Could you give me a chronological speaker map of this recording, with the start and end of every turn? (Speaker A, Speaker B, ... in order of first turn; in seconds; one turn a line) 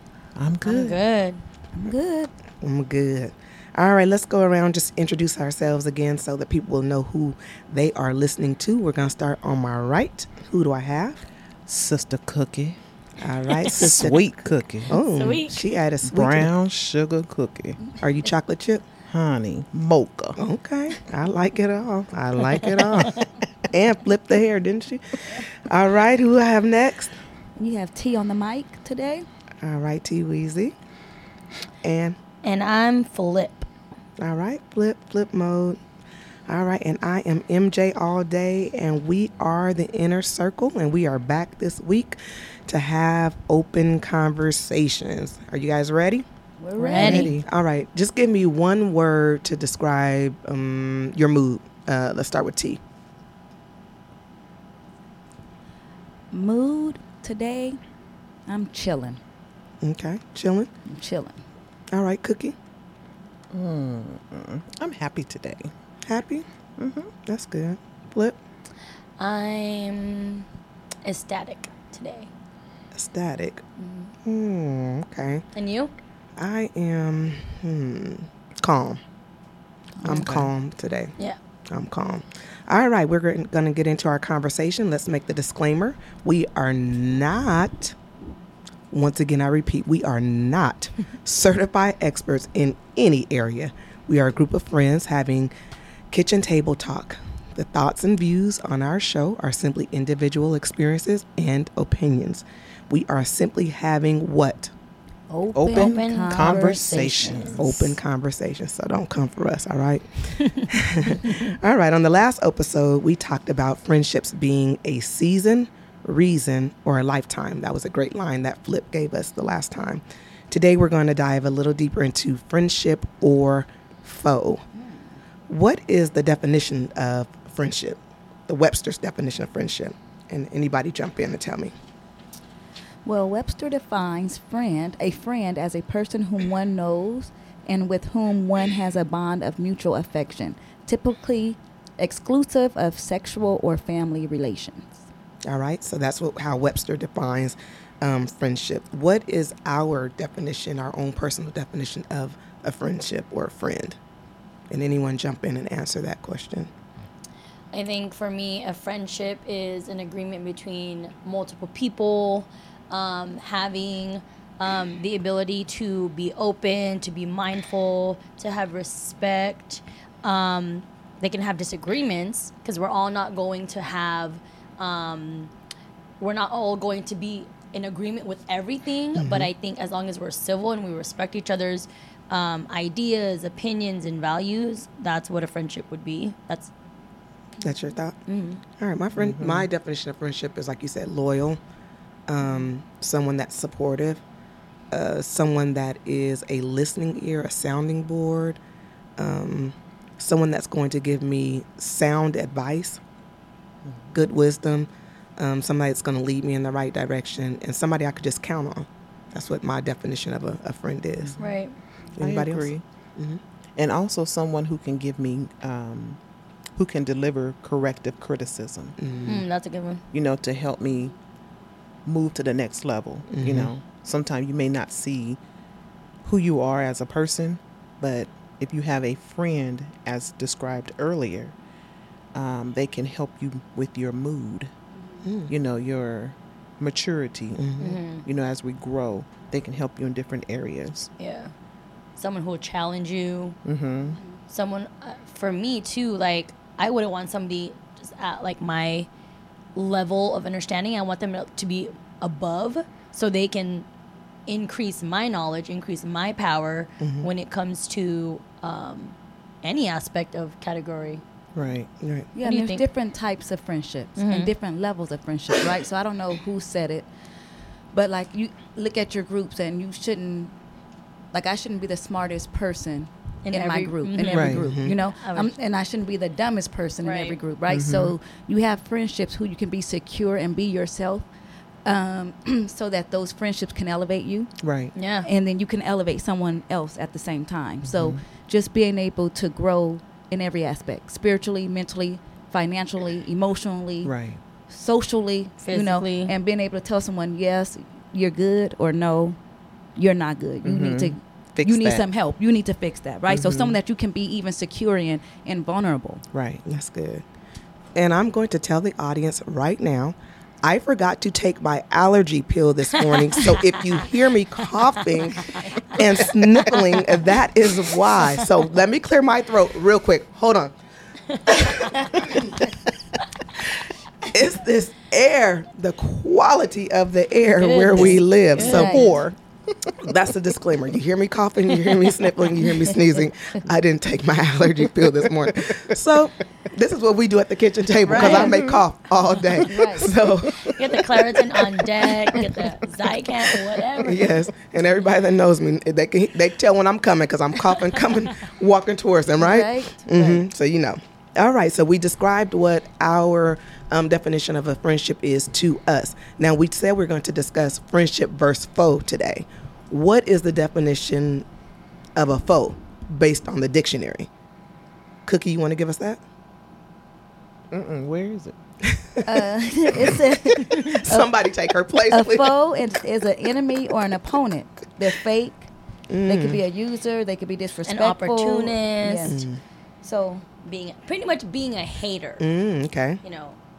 Speaker A: 0.3-1.0
Speaker B: 0.6-1.4
Speaker C: 1.7-2.3
Speaker D: 2.6-11.2
Speaker A: 11.7-12.8
Speaker D: 13.2-14.4
Speaker A: 13.6-14.9
Speaker D: 14.9-16.5
Speaker B: 15.0-15.6
Speaker A: 16.1-17.8
Speaker D: 18.0-18.8
Speaker A: 19.1-20.4
Speaker D: 20.4-23.2
Speaker A: 22.7-23.1
Speaker D: 23.7-27.1
Speaker C: 27.6-29.2
Speaker D: 29.6-30.7
Speaker D: 31.8-32.2
Speaker B: 32.4-33.7
Speaker D: 34.2-35.8
Speaker D: 36.5-46.2
Speaker C: 46.6-47.3
Speaker B: 46.8-47.3
Speaker D: 47.0-52.8
Speaker A: 47.0-47.4
Speaker C: 56.3-57.8
Speaker C: 58.5-59.2
Speaker D: 59.8-60.7
Speaker C: 60.9-61.4
Speaker D: 61.9-62.5
Speaker A: 63.5-65.7
Speaker D: 66.0-66.4
Speaker A: 66.8-67.1
Speaker D: 67.2-68.4
Speaker B: 69.2-70.5
Speaker B: 71.0-72.3
Speaker D: 72.9-73.6
Speaker B: 73.8-74.0
Speaker D: 74.2-75.4
Speaker B: 75.5-75.9
Speaker D: 76.4-79.0
Speaker C: 80.0-80.2
Speaker D: 80.0-81.1
Speaker A: 80.2-80.5
Speaker D: 81.7-87.9
Speaker D: 88.9-95.5
Speaker D: 96.1-104.7
Speaker C: 105.3-107.7
Speaker A: 105.5-107.8
Speaker B: 105.7-107.6
Speaker D: 107.6-124.6
Speaker D: 125.5-131.7
Speaker C: 133.0-145.0
Speaker D: 145.4-154.0
Speaker D: 154.7-156.7
Speaker B: 157.7-175.5
Speaker B: 176.2-186.7
Speaker D: 179.1-179.5
Speaker D: 187.6-188.2
Speaker B: 188.3-188.6
Speaker D: 188.8-191.6
Speaker A: 189.2-189.7
Speaker D: 192.3-194.2
Speaker D: 194.9-198.6
Speaker D: 199.2-203.0
Speaker D: 204.1-211.3
Speaker B: 211.4-211.7
Speaker D: 212.2-213.4
Speaker A: 212.2-212.8
Speaker A: 213.8-216.2
Speaker A: 216.8-219.0
Speaker D: 219.0-219.4
Speaker B: 219.2-220.0
Speaker A: 220.1-221.1
Speaker A: 222.1-225.4
Speaker D: 223.3-223.7
Speaker A: 226.2-231.5
Speaker A: 232.3-234.7
Speaker D: 235.2-235.5
Speaker A: 235.5-237.6
Speaker D: 237.6-238.0
Speaker B: 237.8-238.2
Speaker A: 238.2-241.1
Speaker B: 241.2-241.5
Speaker B: 242.2-243.6
Speaker A: 243.6-244.2
Speaker B: 244.5-249.1
Speaker B: 249.8-253.8
Speaker B: 254.5-261.2
Speaker D: 257.0-257.3
Speaker A: 261.5-261.9
Speaker D: 262.0-262.3
Speaker C: 262.3-267.1
Speaker B: 262.4-262.8
Speaker B: 264.2-264.5
Speaker C: 267.9-270.5
Speaker C: 271.3-281.3
Speaker B: 273.4-275.5
Speaker A: 274.3-274.6
Speaker D: 274.6-274.9
Speaker B: 277.0-277.4
Speaker A: 277.7-278.1
Speaker C: 281.8-284.5
Speaker A: 284.6-284.9
Speaker B: 284.9-285.3
Speaker C: 285.2-294.1
Speaker A: 287.8-288.2
Speaker A: 294.0-294.4
Speaker C: 294.7-299.4
Speaker B: 295.6-296.3
Speaker C: 299.9-306.2
Speaker A: 300.6-302.1
Speaker A: 303.3-303.8
Speaker A: 306.3-306.6
Speaker D: 306.6-307.2
Speaker D: 307.9-320.7
Speaker B: 313.1-313.7
Speaker B: 315.4-316.0
Speaker B: 321.3-322.3
Speaker D: 321.4-322.7
Speaker D: 324.2-329.3
Speaker B: 327.6-329.1
Speaker C: 328.6-329.2
Speaker A: 328.6-329.2
Speaker D: 330.0-341.4
Speaker B: 338.1-338.6
Speaker A: 338.1-338.8
Speaker C: 339.6-340.1
Speaker B: 340.6-344.4
Speaker D: 343.9-361.4
Speaker C: 349.4-350.4
Speaker D: 362.1-364.3
Speaker D: 365.2-366.2
Speaker A: 367.7-368.6
Speaker D: 368.8-372.6
Speaker C: 369.2-371.3
Speaker C: 372.1-375.7
Speaker D: 376.1-376.6
Speaker C: 376.2-379.4
Speaker B: 377.8-379.4
Speaker D: 379.2-379.6
Speaker C: 380.0-380.4
Speaker B: 380.6-382.5
Speaker D: 382.4-383.2
Speaker B: 383.2-383.6